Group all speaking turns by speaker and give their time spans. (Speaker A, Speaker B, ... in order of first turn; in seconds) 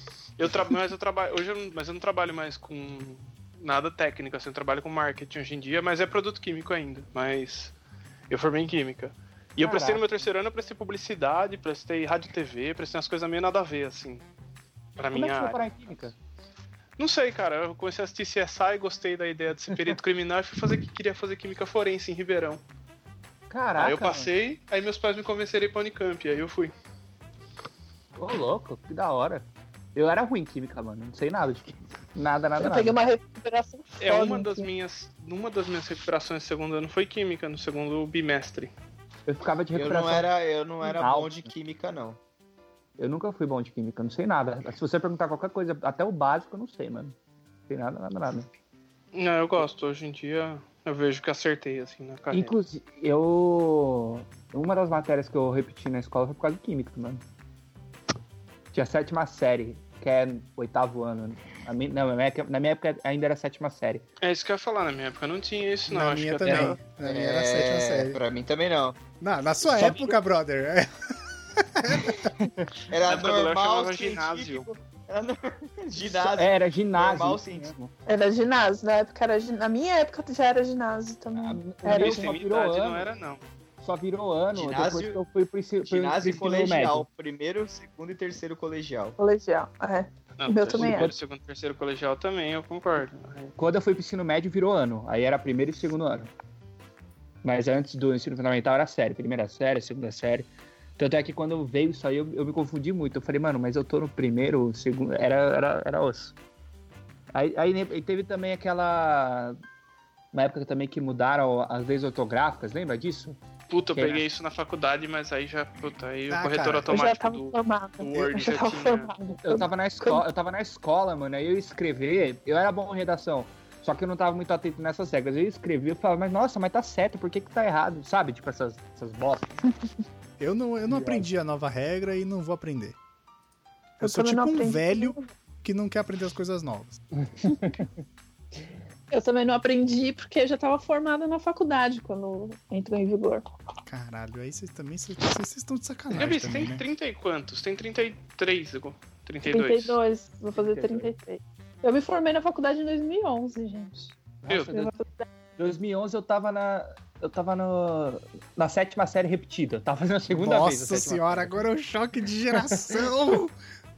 Speaker A: 0.4-7.7, 8.3-14.2, 15.0-15.7, 17.0-22.6, 23.8-26.7, 34.0-38.7, 49.1-52.5, 64.2-66.8, 73.0-74.7, 81.8-83.5, 90.4-93.5, 113.7-119.1, 146.1-150.0, 154.5-154.7
Speaker B: 9.6-10.0, 15.1-16.1, 19.7-20.0, 23.5-24.3, 28.2-33.0, 39.2-40.3, 40.8-41.5, 43.0-47.1, 47.7-48.5, 52.3-57.2, 58.7-64.0, 66.4-66.7, 69.6-70.2, 72.4-72.7, 76.1-77.9, 81.3-83.1, 83.8-87.0, 90.7-91.1, 93.6-96.3, 97.4-106.3, 107.3-109.6, 110.3-113.4, 113.9-114.2, 119.4-129.6, 130.9-131.2, 137.2-137.9, 150.5-151.1, 154.4-154.9, 155.6-161.6, 162.7-163.0
Speaker C: 32.6-34.7, 78.0-82.3, 89.2-91.1, 116.9-120.2, 134.0-135.3, 139.1-143.4, 149.5-154.2, 154.7-155.3
Speaker D: 39.7-42.2, 67.0-69.0, 72.9-77.7, 84.5-85.2, 85.8-89.2
Speaker E: 65.9-68.2, 69.2-70.9, 71.6-72.3, 116.3-117.0, 130.4-132.9, 134.0-137.0, 143.9-146.8, 160.3-163.5